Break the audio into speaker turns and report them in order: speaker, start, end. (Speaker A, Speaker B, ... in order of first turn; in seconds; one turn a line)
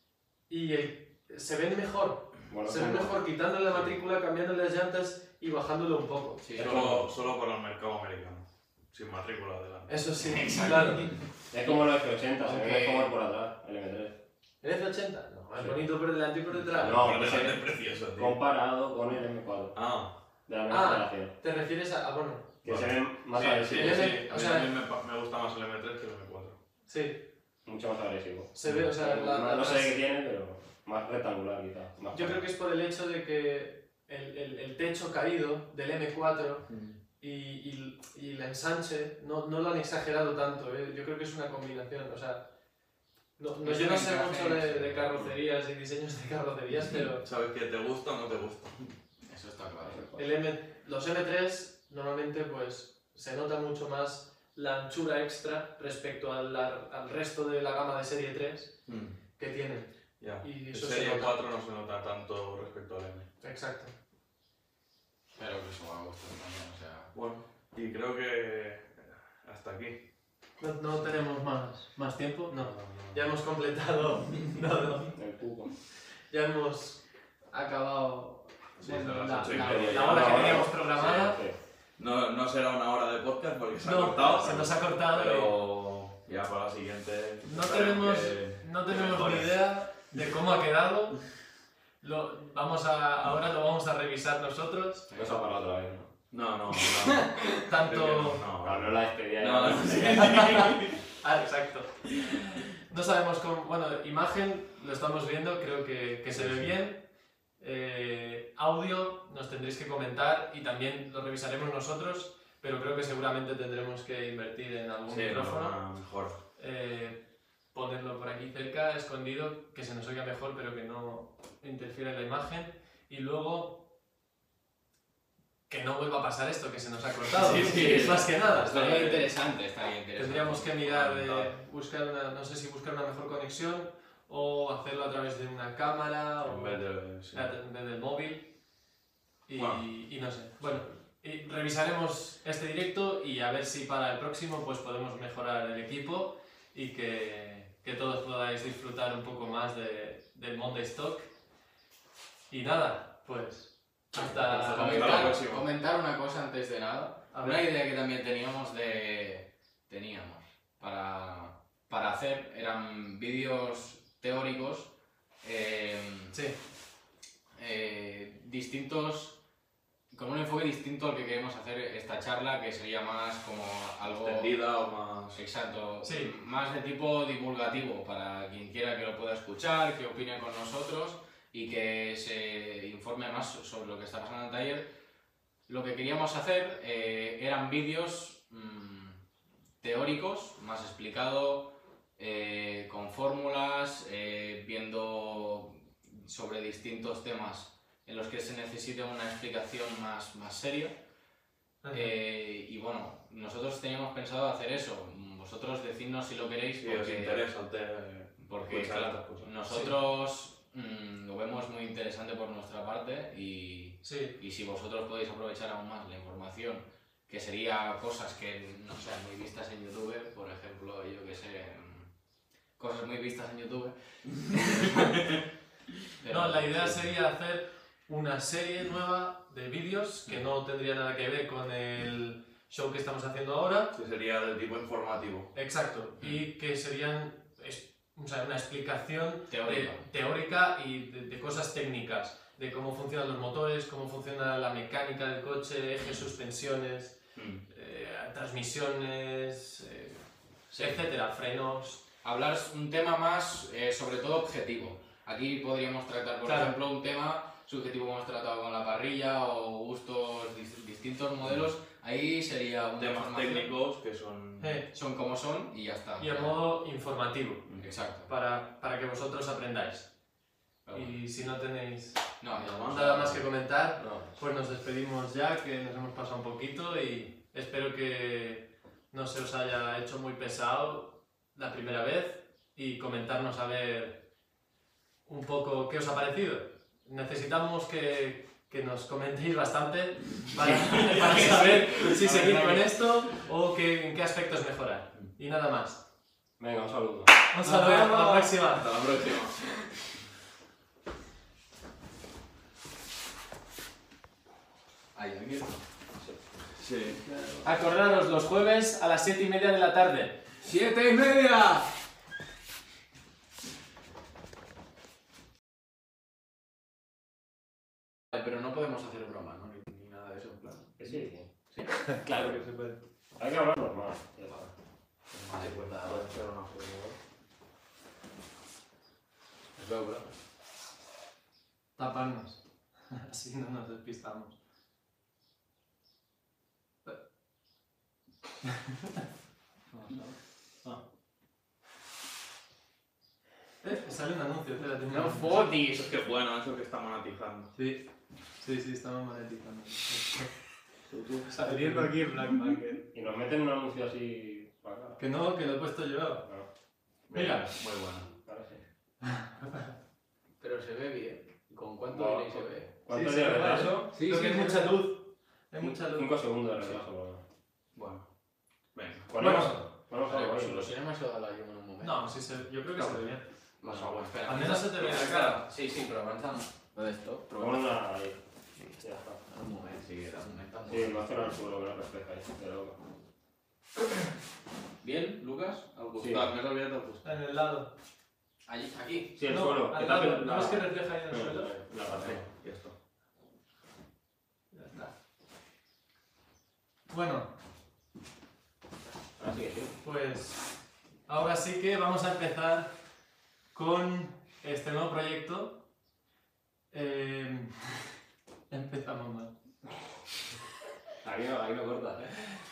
Speaker A: 0.5-6.4
Speaker B: 2.5-3.1
Speaker C: 6.4-7.0
Speaker D: 6.5-10.0
Speaker B: 6.6-7.0
Speaker A: 9.9-11.1
Speaker C: 10.2-11.8
Speaker B: 11.5-14.2
Speaker C: 12.4-13.1
Speaker A: 14.6-17.4
Speaker D: 16.6-18.3
Speaker B: 16.8-19.8
Speaker D: 19.7-20.1
Speaker B: 20.5-21.3
Speaker A: 20.7-22.5
Speaker B: 22.6-24.1
Speaker D: 22.6-26.6
Speaker A: 23.7-24.7
Speaker A: 26.9-27.2
Speaker B: 27.6-32.4
Speaker A: 28.5-29.9
Speaker A: 32.1-36.6
Speaker D: 36.7-37.0
Speaker A: 37.2-42.4
Speaker A: 43.4-47.2
Speaker C: 43.6-45.1
Speaker D: 47.2-48.9
Speaker C: 49.3-50.1
Speaker B: 49.8-50.2
Speaker A: 50.1-58.8
Speaker D: 58.9-59.2
Speaker A: 59.4-59.9
Speaker D: 60.2-63.3
Speaker A: 60.4-61.4
Speaker A: 63.4-63.9
Speaker C: 65.3-67.1
Speaker D: 67.1-70.0
Speaker A: 70.6-75.1
Speaker D: 72.5-73.2
Speaker B: 75.1-75.7
Speaker A: 76.3-77.0
Speaker A: 77.5-81.4
Speaker D: 78.8-81.3
Speaker B: 79.5-81.6
Speaker D: 82.0-89.5
Speaker A: 83.8-85.5
Speaker A: 87.4-91.2
Speaker A: 92.0-95.0
Speaker C: 95.1-95.3
Speaker B: 95.1-96.1
Speaker D: 96.3-101.0
Speaker C: 96.9-97.5
Speaker A: 97.6-98.4
Speaker B: 98.6-100.6
Speaker A: 100.1-107.0
Speaker D: 106.3-106.7
Speaker A: 107.6-115.8
Speaker D: 115.1-116.4
Speaker A: 116.6-117.2
Speaker A: 117.7-123.9
Speaker A: 125.7-129.1
Speaker C: 127.3-130.8
Speaker D: 128.5-129.2
Speaker A: 130.2-138.5
Speaker D: 130.9-131.5
Speaker D: 136.4-137.5
Speaker A: 139.5-151.3
Speaker D: 139.6-139.8
Speaker A: 152.5-155.3
Speaker C: 154.2-164.9
Speaker D: 154.2-155.6
Speaker A: 157.3-157.6
Speaker C: 165.4-166.3
Speaker C: 167.6-169.3
Speaker C: 170.1-174.5
Speaker D: 174.0-175.4
Speaker C: 175.3-184.8
Speaker A: 176.0-176.3
Speaker C: 185.7-189.2
Speaker C: 189.8-200.9
Speaker A: 201.8-202.1
Speaker C: 201.9-207.4
Speaker D: 206.8-209.5
Speaker C: 208.5-222.1
Speaker A: 214.0-214.3
Speaker C: 222.8-225.3
Speaker C: 226.2-227.1
Speaker A: 226.3-233.9
Speaker D: 233.9-235.5
Speaker A: 235.5-247.2
Speaker C: 239.5-240.0
Speaker D: 247.3-247.6
Speaker A: 247.7-252.0
Speaker C: 250.7-251.0
Speaker C: 252.2-263.7
Speaker A: 256.4-256.7
Speaker D: 263.0-264.8
Speaker A: 264.6-264.9
Speaker C: 264.9-266.6
Speaker A: 266.2-267.7
Speaker C: 267.8-268.3
Speaker A: 268.3-270.1
Speaker C: 270.9-271.2
Speaker A: 270.9-272.3
Speaker C: 272.4-273.4
Speaker D: 272.5-273.3
Speaker A: 272.9-284.2
Speaker B: 274.0-274.3
Speaker A: 285.2-296.0
Speaker C: 290.5-293.0
Speaker B: 296.6-297.3
Speaker A: 297.5-298.9
Speaker C: 297.6-299.9
Speaker C: 305.1-305.8
Speaker D: 306.8-307.2
Speaker A: 307.6-310.4
Speaker C: 310.6-311.9
Speaker C: 318.3-321.2
Speaker B: 321.0-321.5
Speaker A: 322.1-323.0
Speaker B: 322.2-322.6
Speaker B: 323.4-324.7
Speaker D: 325.3-327.1
Speaker C: 325.5-326.3
Speaker C: 329.8-330.3
Speaker A: 332.0-332.6
Speaker A: 333.1-334.6
Speaker A: 338.6-338.9
Speaker C: 340.0-340.2
Speaker A: 343.8-345.5
Speaker C: 345.1-346.0
Speaker D: 345.8-347.7
Speaker A: 347.7-348.1
Speaker A: 348.6-350.5
Speaker A: 351.4-353.0
Speaker B: 353.1-355.2
Speaker A: 355.2-356.4
Speaker D: 357.3-358.3
Speaker A: 357.3-357.7
Speaker B: 358.4-358.8
Speaker A: 359.2-359.9
Speaker C: 360.6-362.9
Speaker B: 362.1-364.2
Speaker A: 363.1-366.3
Speaker C: 364.1-364.8
Speaker B: 365.8-367.4
Speaker D: 367.9-368.3
Speaker D: 368.9-369.3
Speaker B: 369.3-370.9
Speaker A: 369.4-369.8
Speaker C: 370.2-372.3
Speaker A: 372.0-373.4
Speaker C: 373.8-377.9
Speaker A: 374.4-375.6
Speaker B: 377.6-378.4
Speaker B: 379.0-379.4
Speaker C: 379.5-381.2
Speaker B: 380.9-383.0
Speaker C: 385.0-387.2
Speaker D: 386.1-387.2
Speaker B: 386.2-386.5
Speaker A: 387.2-387.9
Speaker C: 388.6-389.3
Speaker B: 389.3-392.4
Speaker A: 389.5-391.7
Speaker D: 392.1-392.9
Speaker A: 394.7-395.1
Speaker A: 397.1-397.5
Speaker B: 399.4-400.0
Speaker A: 400.0-400.6
Speaker A: 401.3-402.9
Speaker A: 403.7-405.8
Speaker A: 406.9-407.9
Speaker A: 408.7-409.5
Speaker B: 411.2-412.3